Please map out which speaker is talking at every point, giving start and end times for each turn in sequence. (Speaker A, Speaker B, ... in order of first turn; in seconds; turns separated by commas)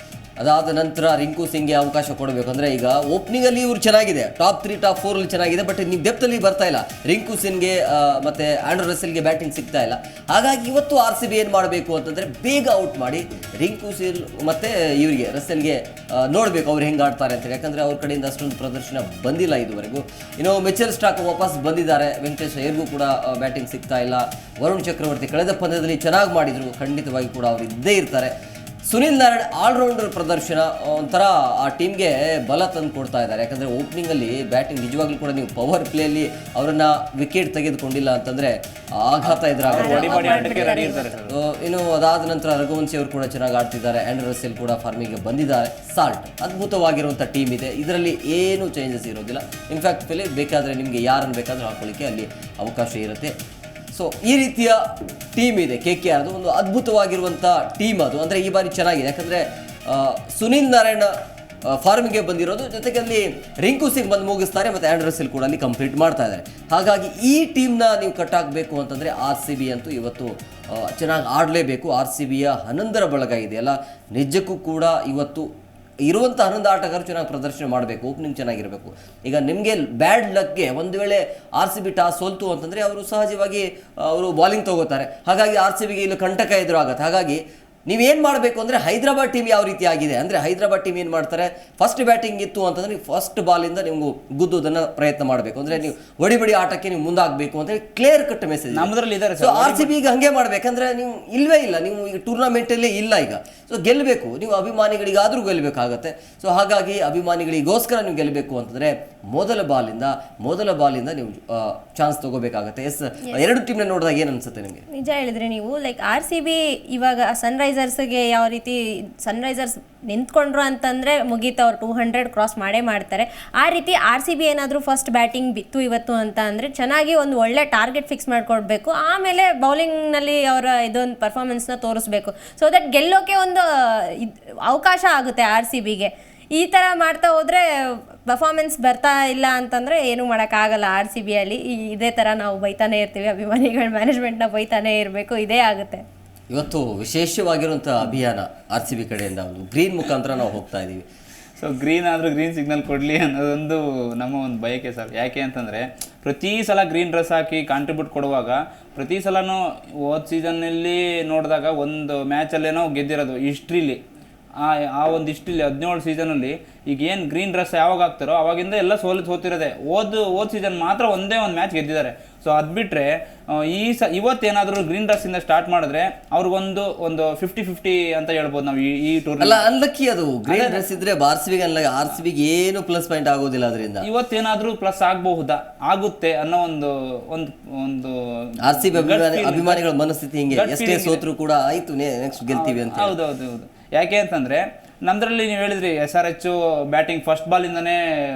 Speaker A: 0.4-28.3, Speaker A: 28.9-53.4, Speaker B: 39.3-41.2, Speaker C: 39.7-41.3, Speaker A: 53.9-54.8, Speaker A: 55.3-61.1, Speaker A: 61.7-75.5, Speaker A: 76.0-114.8, Speaker B: 98.7-99.9, Speaker C: 114.9-146.0, Speaker A: 146.5-151.1, Speaker B: 151.6-164.0, Speaker B: 164.6-179.7, Speaker A: 179.4-184.1, Speaker B: 180.5-180.9, Speaker B: 184.0-189.8, Speaker A: 188.6-193.2, Speaker B: 190.5-191.2, Speaker B: 192.5-198.0